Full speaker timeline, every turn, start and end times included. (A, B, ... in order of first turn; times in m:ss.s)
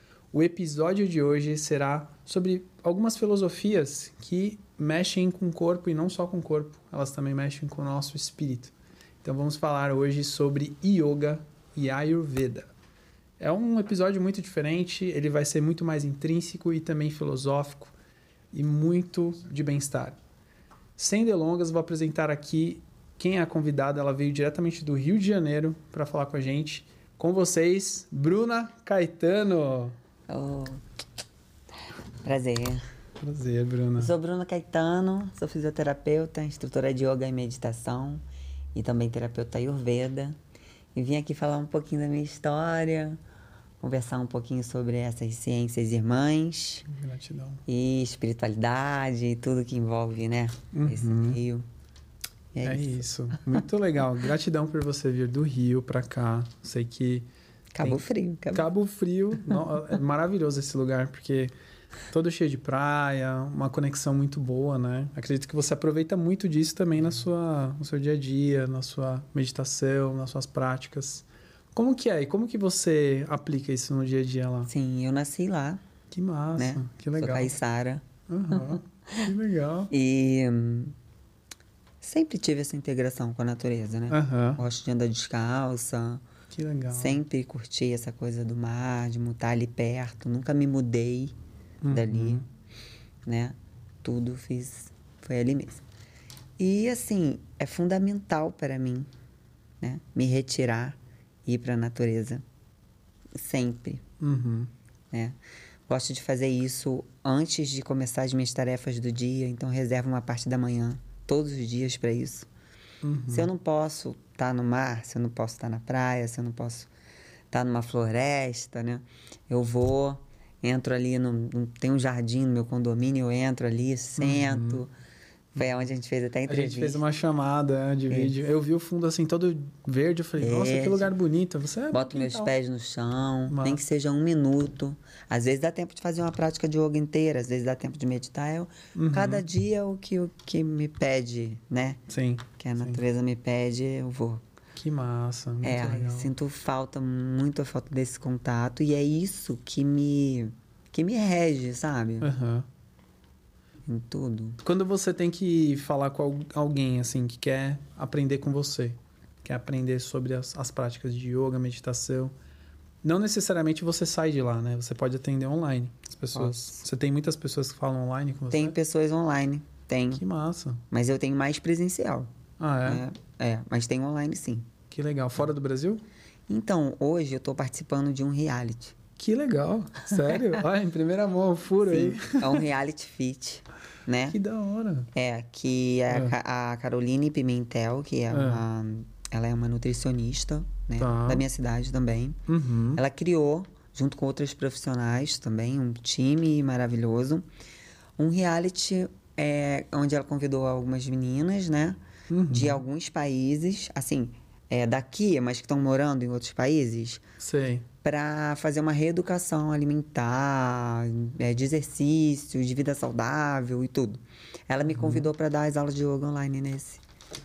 0:00.3-0:12.7 A
0:13.4-0:17.9 A
0:18.5-0:20.2 A
0:21.0-0:30.0 A
0:30.3-0:30.8 B
0:32.2-0:32.8 B
0:33.2-0:34.1 A
0:34.0-0:38.2 B
0:38.7-0:40.4 B
0:40.9-0:43.2 B
0:43.8-0:46.8 B
0:46.8-0:47.6 A
0:47.7-0:51.6 B
0:50.7-0:51.4 A
0:52.5-0:53.0 B
0:52.6-0:57.3 A
0:57.7-0:58.7 B
0:57.8-1:01.5 A
1:02.1-1:14.7 A
1:14.7-1:15.8 B
1:16.1-1:17.5 A
1:16.6-1:19.3 B
1:18.3-1:19.9 A
1:19.9-1:20.9 B
1:22.0-1:26.2 B
1:24.1-1:24.6 A
1:26.5-1:27.2 A
1:26.9-1:31.3 B
1:31.8-1:32.4 A
1:31.9-1:32.4 B
1:33.2-1:35.8 B
1:36.6-1:39.1 B
1:39.8-1:42.4 B
1:43.4-1:44.0 B
1:44.2-1:44.7 A
1:45.9-1:52.5 B
1:53.0-1:53.5 A
1:53.3-1:56.9 B
1:57.5-2:04.9 B
2:04.2-2:04.8 A
2:05.5-2:07.0 B
2:06.5-2:12.5 A
2:08.1-2:08.4 B
2:10.4-2:11.0 B
2:11.9-2:22.0 B
2:13.5-2:13.8 A
2:18.9-2:19.4 A
2:22.1-2:23.0 A
2:22.6-2:24.4 B
2:24.8-2:26.3 A
2:25.6-2:32.3 B
2:32.2-2:32.7 A
2:33.8-2:34.6 B
2:34.6-2:42.3 A
2:43.0-2:48.8 A
2:46.3-2:46.8 B
2:48.5-2:50.2 B
2:50.1-2:50.8 A
2:50.9-2:52.3 B
2:52.6-2:53.0 A
2:52.8-2:54.7 B
2:54.9-2:56.0 A
2:56.5-2:59.0 B
2:59.2-3:02.6 A
3:00.1-3:00.4 B
3:01.9-3:04.4 B
3:04.3-3:05.1 A
3:05.1-3:12.4 B
3:08.3-3:08.6 A
3:11.0-3:11.4 A
3:12.5-3:13.0 A
3:12.9-3:17.4 B
3:18.2-3:22.0 B
3:22.3-3:22.8 A
3:22.5-3:27.2 B
3:27.4-3:27.8 A
3:28.0-3:37.0 B
3:34.9-3:35.3 A